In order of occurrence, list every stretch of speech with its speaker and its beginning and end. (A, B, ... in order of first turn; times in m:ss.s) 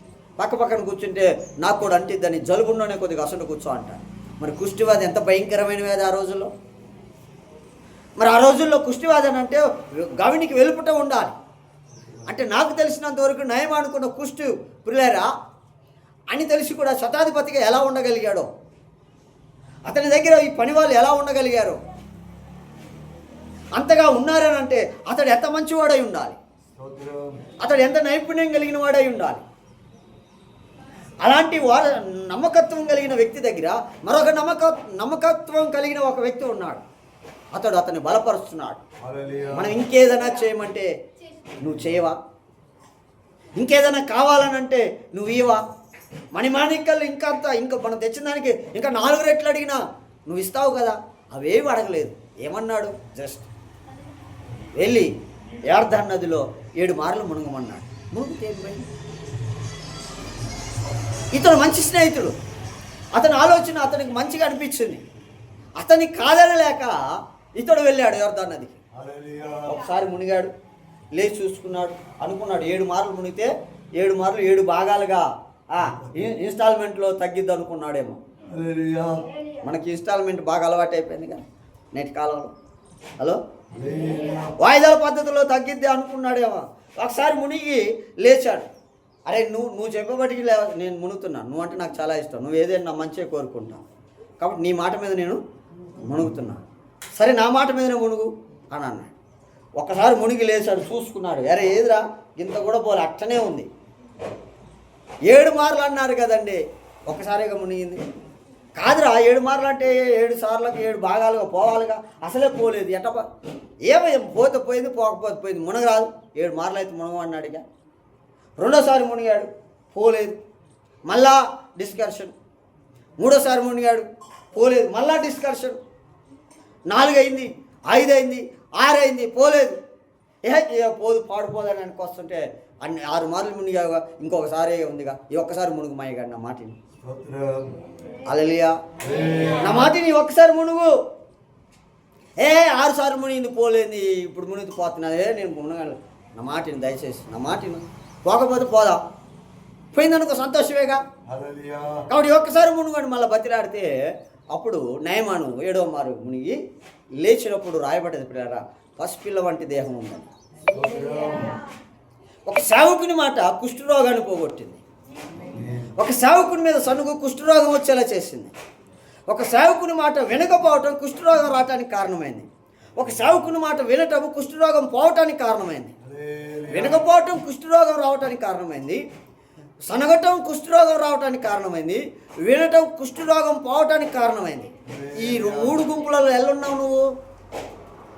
0:00.4-0:06.5 A
0:08.2-0:11.3 A
0:11.9-0:12.3 B
0:12.3-0:15.3 A
0:16.3-0:18.5 A
0:19.8-0:21.8 A
0:23.8-0:26.4 A
0:26.8-0:27.4 B
0:27.6-0:29.4 A
0:31.2-0:36.8 A
0:37.5-0:38.8 A
0:39.0-0:39.8 B
0:39.5-0:40.9 A
0:41.6-0:42.2 A
0:43.6-0:45.6 A
0:46.3-0:53.5 A
0:54.7-0:58.8 A
1:01.3-1:02.4 A
1:03.1-1:05.0 A
1:05.8-1:07.0 A
1:07.6-1:08.8 A
1:08.9-1:09.8 B
1:09.7-1:10.5 A
1:11.1-1:18.2 A
1:15.8-1:16.3 B
1:18.5-1:19.3 B
1:19.6-1:21.4 A
1:21.9-1:22.5 A
1:23.7-1:24.6 B
1:24.6-1:28.7 A
1:29.3-1:33.8 A
1:34.4-1:35.4 A
1:36.0-1:36.6 A
1:37.2-1:39.1 A
1:39.8-1:43.7 A
1:45.3-1:48.0 A
1:48.8-1:53.3 A
1:53.8-1:57.6 A
1:58.6-2:00.4 A
2:01.0-2:02.3 A
2:03.2-2:05.8 A
2:06.9-2:09.8 A
2:10.4-2:16.8 A
2:17.0-2:17.8 B
2:18.2-2:18.8 A
2:19.0-2:19.8 B
2:19.6-2:21.0 A
2:22.4-2:29.0 A
2:29.9-2:31.0 A
2:31.2-2:32.0 B
2:32.1-2:33.9 A
2:34.5-2:36.6 A
2:37.2-2:40.3 A
2:40.7-2:41.6 B
2:42.4-2:44.8 A
2:45.5-2:45.9 B
2:46.0-2:48.5 A
2:49.3-2:55.9 A
2:56.0-2:57.0 B
2:56.7-2:59.0 A
2:59.8-3:07.0 A
3:04.8-3:05.8 B